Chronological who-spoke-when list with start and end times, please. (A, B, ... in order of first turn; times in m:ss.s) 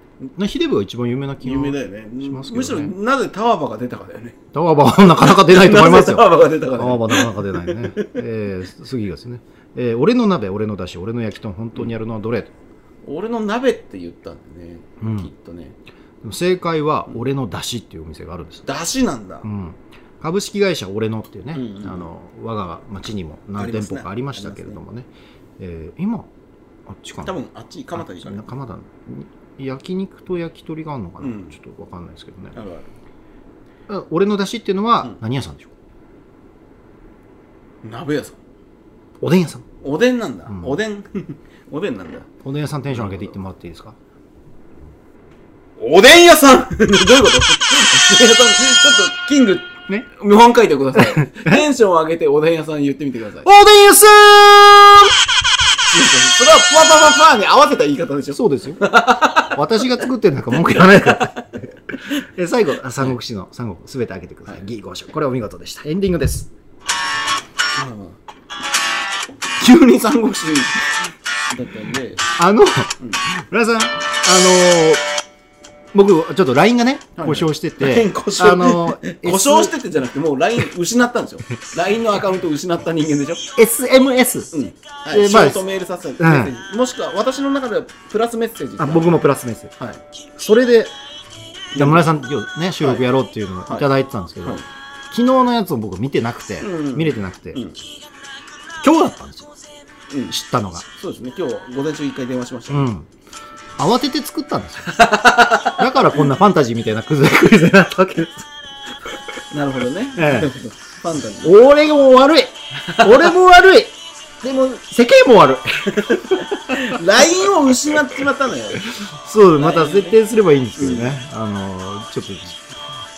0:00.4-0:02.9 A
0:01.4-0:04.4 B
0:04.5-0:12.5 A
0:05.0-0:08.1 B
0:13.0-0:15.8 B
0:15.0-0:15.3 A
0:16.2-0:18.7 A
0:18.6-0:19.5 B
0:19.4-0:26.3 A
0:21.5-0:22.1 B
0:23.6-0:24.8 B
0:26.9-0:27.4 A
0:27.2-0:28.4 B
0:28.0-0:32.6 A
0:31.2-0:31.6 B
0:32.6-0:32.9 B
0:33.9-0:35.7 A
0:37.8-0:38.4 B
0:39.2-0:39.7 A
0:39.8-0:42.3 B
0:40.5-0:40.8 A
0:42.4-0:44.0 A
0:42.9-0:43.3 B
0:45.8-0:53.5 B
0:51.2-0:51.6 A
0:53.4-0:55.2 A
0:55.9-1:00.0 B
0:58.3-1:06.5 A
1:00.8-1:01.5 B
1:07.8-1:08.2 B
1:09.6-1:12.2 B
1:12.4-1:15.0 A
1:15.9-1:19.7 A
1:17.2-1:23.4 B
1:23.6-1:24.5 A
1:24.5-1:29.3 B
1:25.1-1:25.6 A
1:26.2-1:26.5 A
1:28.8-1:29.7 A
1:30.4-1:30.9 A
1:31.7-1:32.1 B
1:31.7-1:37.6 A
1:32.8-1:33.0 B
1:36.6-1:37.8 B
1:38.8-1:39.5 A
1:40.1-1:40.4 B
1:40.3-1:40.8 A
1:40.9-1:42.9 B
1:42.7-1:43.1 A
1:43.8-1:45.0 A
1:44.9-1:46.3 B
1:45.6-1:48.5 A
1:49.5-1:51.6 B
1:50.2-1:50.5 A
1:51.4-1:57.0 A
1:52.8-1:53.3 B
1:55.9-1:58.9 B
1:58.9-2:02.6 A
1:59.5-2:00.2 B
2:00.8-2:01.2 B